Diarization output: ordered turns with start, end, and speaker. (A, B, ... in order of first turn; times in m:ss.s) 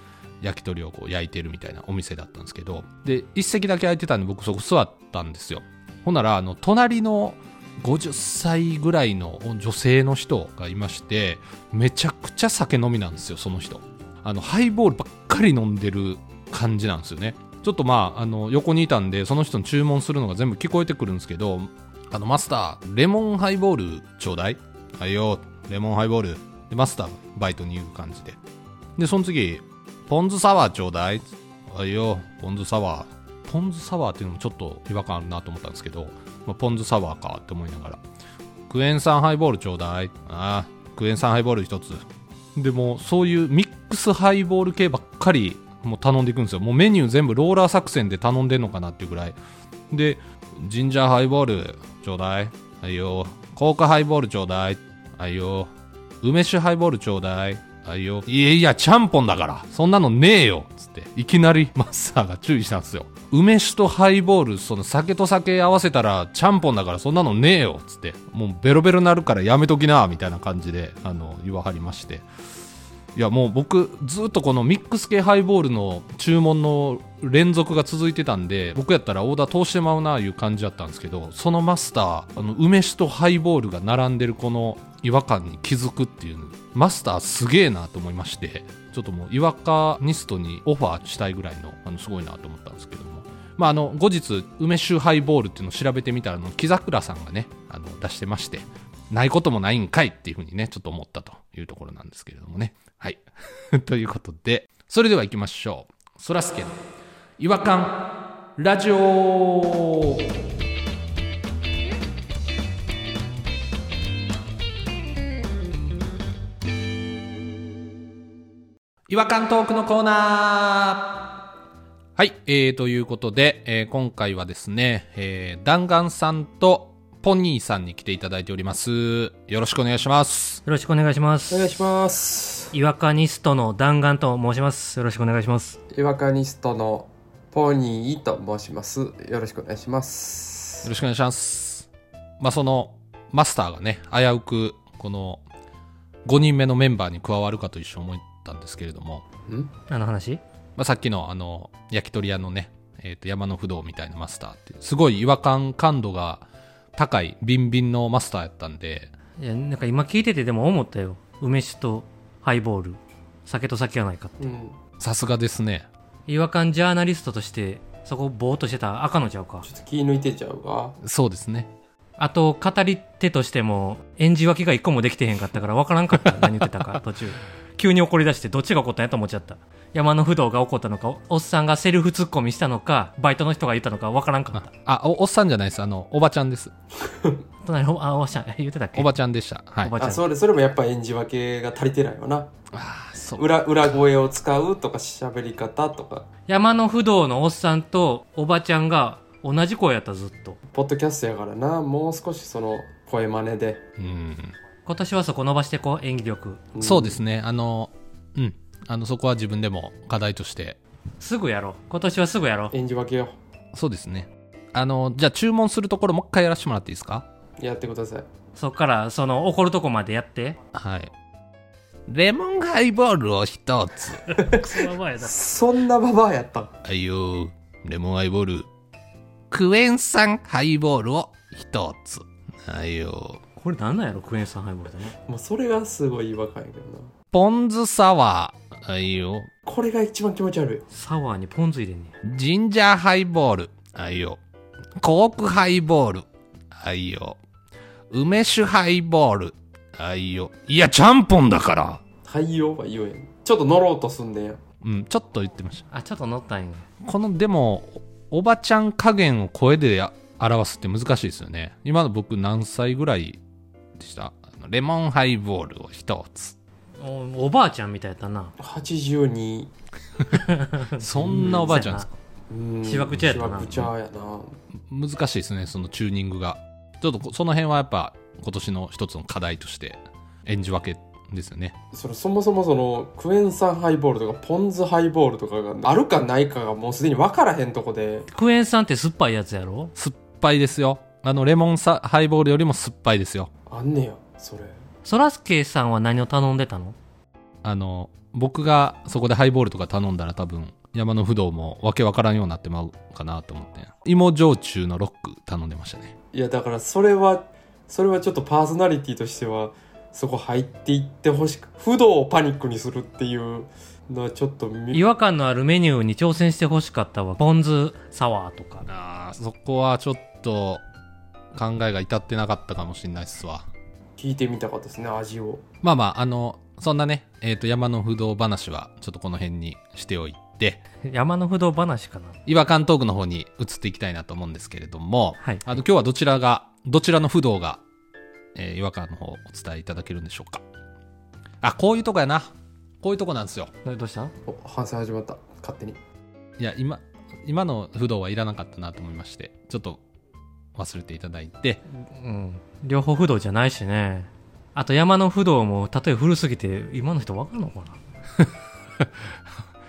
0:00.4-0:28.4 A
0:29.0-0:38.0 A
0:38.7-0:42.0 A
0:42.6-0:49.4 A
0:49.9-0:55.7 A
0:56.2-1:12.2 A
1:13.1-1:46.8 A
1:47.4-1:50.3 A
1:59.1-2:01.2 A
2:02.2-2:10.6 A
2:10.6-2:11.7 B
2:11.5-2:12.7 C
2:12.7-2:15.8 B
2:15.9-2:20.9 C
2:20.8-2:21.9 A
2:22.4-2:25.4 A
2:26.2-2:29.2 A
2:29.5-2:29.7 C
2:29.9-2:30.4 B
2:30.8-2:36.4 A
2:37.0-2:39.1 A
2:39.4-2:44.5 B
2:44.4-2:44.8 C
2:45.0-2:45.9 A
2:46.3-2:49.7 B
2:49.6-2:51.0 C
2:51.0-2:51.7 A
2:52.2-3:04.7 B
3:04.5-3:06.7 A
3:07.0-3:07.4 C
3:07.6-3:09.1 B
3:08.9-3:09.9 A
3:09.8-3:10.2 B
3:10.0-3:12.5 C
3:12.7-3:13.7 A
3:13.4-3:16.2 C
3:16.5-3:20.6 B
3:20.7-3:23.8 C
3:24.0-3:24.6 A
3:24.8-3:26.6 B
3:26.7-3:27.2 C
3:26.8-3:30.8 A
3:31.2-3:32.7 B
3:32.7-3:33.4 C
3:33.7-3:37.2 A
3:37.6-3:38.3 C
3:38.6-3:40.6 B
3:40.7-3:41.1 A
3:42.1-3:44.2 A
3:44.3-3:45.4 B
3:44.4-3:46.7 C
3:46.8-3:48.7 A
3:49.5-3:53.4 A
3:53.6-3:55.2 B
3:55.2-3:57.1 C
3:57.3-3:59.5 A
3:59.6-4:00.8 C
4:00.9-4:02.1 B
4:02.2-4:04.4 A
4:05.0-4:07.4 A
4:08.1-4:12.0 A
4:12.2-4:14.6 C
4:14.8-4:15.8 A
4:15.9-4:16.9 B
4:17.0-4:23.4 A
4:24.0-4:26.6 A
4:27.0-4:28.5 B
4:28.6-4:29.7 C
4:30.3-4:32.1 B
4:31.0-4:32.1 A
4:31.3-4:31.6 C
4:32.5-4:34.6 C
4:32.8-4:33.9 B
4:34.9-4:41.7 A
4:41.9-4:48.2 C
4:48.3-4:49.9 B
4:50.0-4:53.5 A
4:53.7-4:54.8 C
4:55.0-4:57.0 B
4:57.6-5:06.1 A
5:06.3-5:15.0 C
5:14.9-5:18.9 B
5:18.9-5:20.8 A
5:21.5-5:23.7 A
5:24.2-5:25.6 C
5:25.8-5:30.8 A
5:31.0-5:32.4 B
5:32.4-5:37.8 A
5:35.4-5:35.7 B
5:38.6-5:40.6 A
5:41.6-5:43.7 A
5:43.8-5:44.3 B
5:44.4-5:46.0 C
5:46.6-5:50.0 A
5:50.7-5:51.8 A
5:52.0-5:58.0 B